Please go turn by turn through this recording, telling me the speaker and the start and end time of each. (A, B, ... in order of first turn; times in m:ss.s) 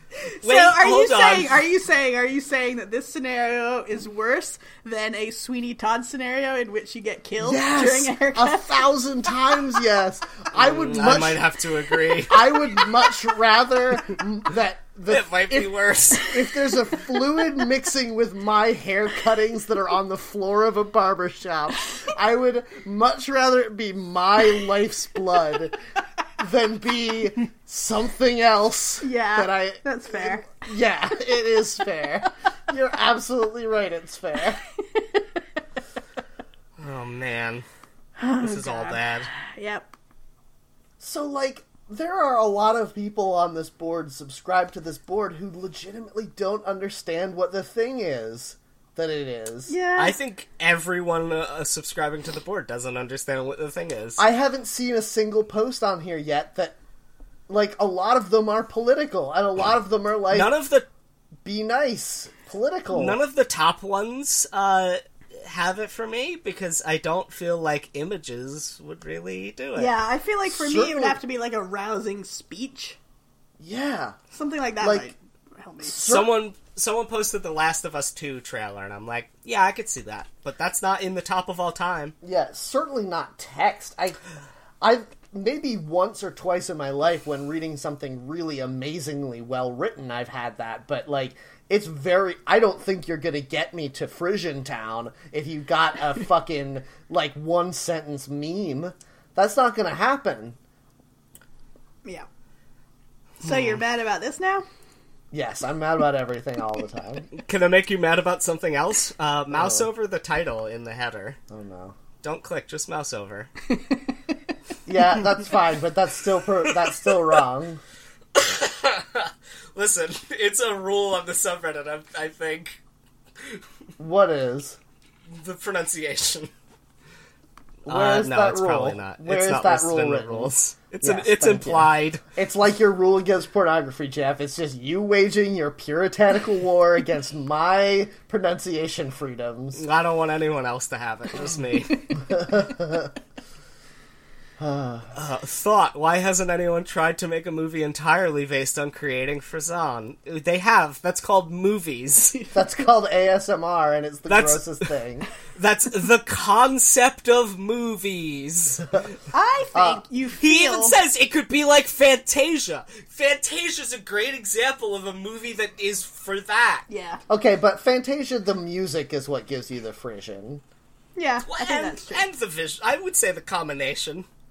0:00.3-0:08.8 A
0:00.4-0:01.6 B
0:07.4-0:11.4 C
0:10.6-0:12.6 B
0:12.3-0:25.8 C
0:15.1-0:16.4 B
0:26.4-0:34.6 C
0:29.0-0:30.6 A
0:36.8-0:37.7 B
0:38.2-0:39.9 A
0:38.4-0:39.3 B
0:41.0-0:49.7 C
0:49.7-0:50.2 A
0:50.0-0:54.2 B
0:54.2-0:56.8 C
0:57.5-1:00.5 C
1:00.3-1:00.9 B
1:01.4-1:03.2 C
1:02.9-1:09.9 B
1:09.8-1:13.0 A
1:10.5-1:11.2 C
1:13.6-1:14.2 C
1:14.3-1:16.0 A
1:14.8-1:15.1 C
1:15.8-1:16.4 C
1:16.0-1:22.2 B
1:22.2-1:24.2 C
1:24.8-1:40.6 C
1:43.4-1:43.8 B
1:43.4-1:44.7 A
1:45.3-1:47.3 C
1:47.3-1:51.4 B
1:49.5-1:49.9 C
1:51.5-1:52.0 C
1:52.2-1:53.5 B
1:54.9-1:57.8 C
1:58.4-2:02.8 B
2:04.0-2:04.8 C
2:05.3-2:06.5 B
2:07.9-2:12.2 B
2:07.9-2:19.8 C
2:19.8-2:22.2 B
2:22.3-2:23.1 C
2:24.6-2:25.1 C
2:25.2-2:32.4 B
2:32.5-2:35.3 C
2:34.3-2:34.9 B
2:35.6-2:39.1 B
2:39.3-2:41.0 A
2:39.7-2:40.0 C
2:40.4-2:46.9 B
2:46.9-2:47.2 A
2:47.3-2:50.6 C
2:51.2-2:52.2 A
2:51.5-2:54.3 B